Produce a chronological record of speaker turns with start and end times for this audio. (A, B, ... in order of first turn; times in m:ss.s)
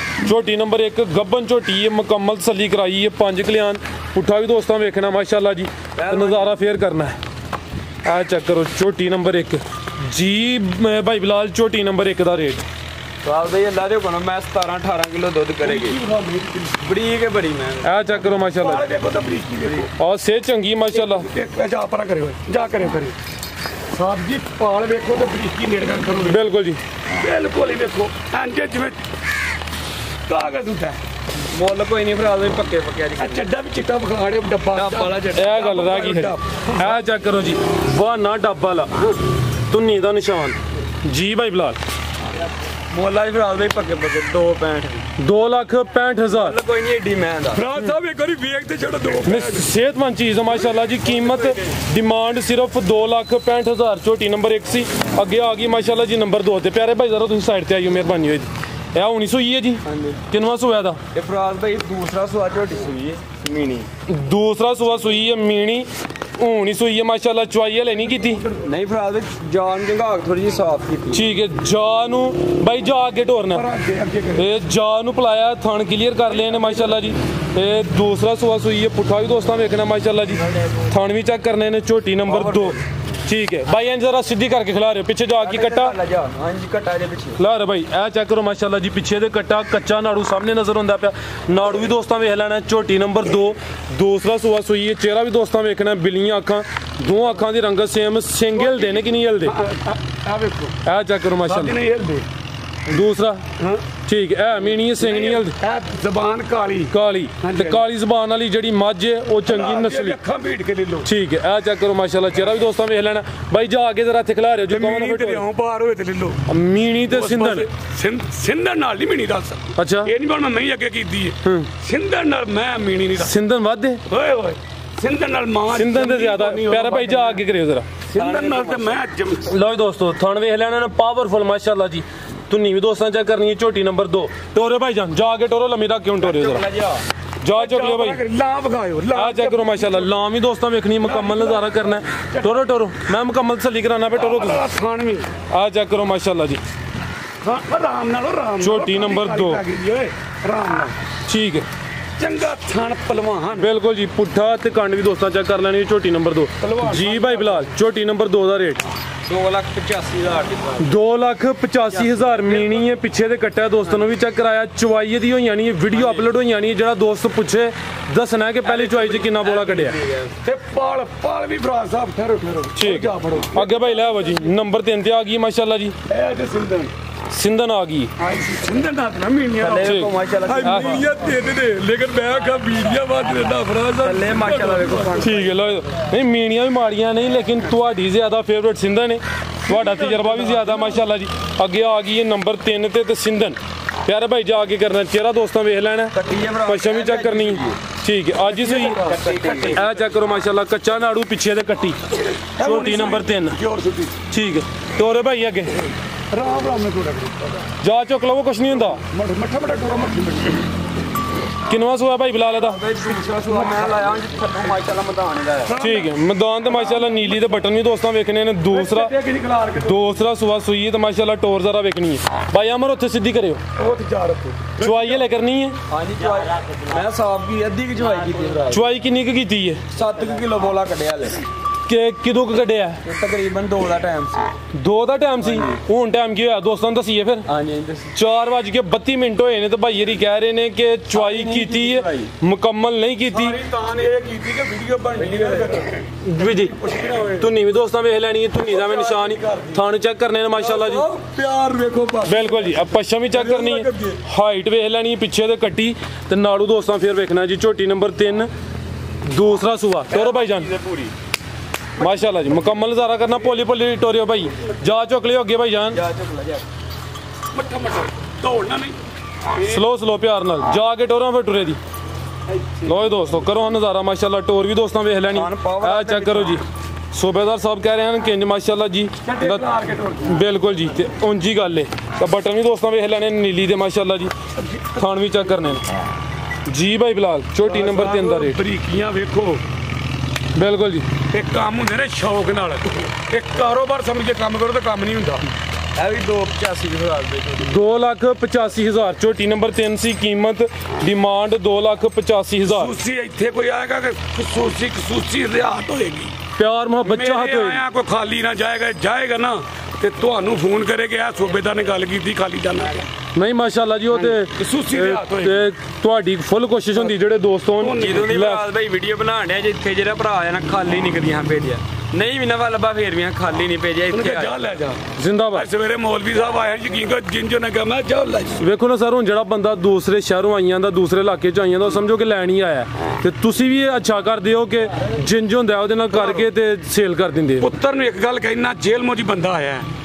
0:00.2-0:07.2 A
0:06.0-0:06.6 B
0:08.0-0:12.6 A
0:13.2-0:16.0 B
0:15.6-0:16.8 C
0:16.8-0:17.9 B
0:17.8-0:18.8 A
0:18.6-0:19.9 C
0:20.0-0:21.3 A
0:20.9-0:23.1 C
0:23.9-0:26.4 C
0:26.2-0:26.8 A
0:27.2-0:29.0 C
0:30.3-0:31.0 C
0:31.5-0:33.4 B
0:33.2-0:36.9 C
0:34.7-0:35.7 B
0:35.3-0:38.9 A
0:39.7-0:41.8 A
0:42.9-0:45.0 B
0:45.2-0:46.6 A
0:46.3-0:47.6 B
0:47.5-0:49.7 C
0:49.2-1:01.0 A
0:59.8-1:00.2 B
1:01.1-1:03.9 B
1:04.1-1:08.4 A
1:08.5-1:11.2 B
1:11.1-1:13.7 A
1:13.5-1:14.5 C
1:14.4-1:26.0 A
1:16.3-1:16.9 B
1:22.2-1:22.8 B
1:25.4-1:27.4 B
1:27.4-1:39.5 A
1:38.5-1:40.8 C
1:40.8-1:41.8 A
1:41.4-1:42.2 C
1:42.9-1:43.4 A
1:43.6-1:43.8 C
1:44.0-1:45.5 A
1:45.0-1:47.8 C
1:46.9-1:50.2 A
1:49.4-1:51.1 C
1:51.0-1:55.4 A
1:54.7-1:56.4 C
1:56.5-1:57.7 A
1:57.1-2:03.4 C
1:59.8-2:00.1 A
2:01.4-2:01.7 A
2:03.2-2:04.0 A
2:04.1-2:07.4 C
2:05.7-2:07.9 A
2:08.1-2:09.5 C
2:08.1-2:09.0 B
2:09.5-2:16.6 A
2:16.2-2:17.0 B
2:17.4-2:18.2 A
2:17.5-2:20.1 C
2:19.1-2:24.6 A
2:21.0-2:22.6 C
2:24.2-2:25.3 C
2:25.5-2:26.6 A
2:27.4-2:31.0 C
2:28.6-2:29.6 A
2:31.3-2:31.7 A
2:32.2-2:33.7 C
2:33.6-2:38.8 A
2:36.6-2:37.7 C
2:39.2-2:40.9 B
2:40.8-2:50.0 A
2:42.1-2:42.8 B
2:45.9-2:46.2 B
2:48.6-2:50.3 B
2:50.4-2:54.1 C
2:52.8-2:55.9 A
2:56.1-2:56.9 C
2:57.3-2:58.1 A
2:58.2-3:05.3 C
2:59.6-3:01.1 B
2:59.8-3:01.0 A
3:04.0-3:05.5 B
3:05.2-3:16.1 A
3:09.7-3:10.7 C
3:16.1-3:17.8 B
3:16.6-3:19.0 A
3:18.4-3:19.9 C
3:18.9-3:19.9 B
3:19.7-3:22.0 A
3:22.6-3:24.2 C
3:22.6-3:23.6 A
3:24.3-3:25.8 A
3:26.3-3:27.7 C
3:27.8-3:29.0 A
3:29.0-3:30.7 C
3:31.7-3:32.8 A
3:32.6-3:35.8 B
3:33.2-3:34.0 C
3:35.7-3:36.1 C
3:35.8-3:39.1 A
3:36.8-3:37.4 C
3:38.7-3:40.0 C
3:39.8-3:43.6 A
3:43.8-3:45.2 C
3:44.8-3:45.8 A
3:45.9-3:48.9 B
3:48.7-3:49.8 A
3:49.9-3:51.4 B
3:51.8-3:53.0 A
3:53.0-3:54.4 B
3:54.7-3:57.4 A
3:55.4-3:55.8 B
3:57.5-3:58.1 B
3:58.1-4:03.6 A
4:01.1-4:02.3 B
4:03.3-4:07.5 C
4:05.2-4:05.8 B
4:06.2-4:06.8 A
4:07.4-4:11.1 A
4:08.6-4:09.8 C
4:10.5-4:14.2 C
4:12.2-4:18.5 A
4:19.2-4:20.7 A
4:20.1-4:21.1 B
4:22.0-4:26.0 A
4:25.9-4:26.6 B
4:27.5-4:29.0 C
4:29.6-4:31.8 A
4:32.8-4:39.7 A
4:35.3-4:36.6 B
4:39.2-4:40.4 C
4:40.2-4:44.3 A
4:44.6-4:45.6 C
4:45.0-4:45.8 A
4:46.7-4:48.6 A
4:47.6-4:49.6 C
4:50.5-4:51.1 A
4:51.3-4:55.4 C
4:56.0-4:57.8 B
4:57.7-5:03.0 A
5:02.7-5:06.3 C
5:06.6-5:07.8 A
5:07.0-5:13.1 C
5:13.3-5:18.7 A
5:14.4-5:15.7 C
5:17.8-5:18.3 C
5:18.0-5:24.6 B
5:24.1-5:25.0 C
5:25.2-5:25.7 A
5:25.5-5:28.7 C
5:28.6-5:37.7 A
5:36.1-5:36.5 C
5:37.6-5:39.8 C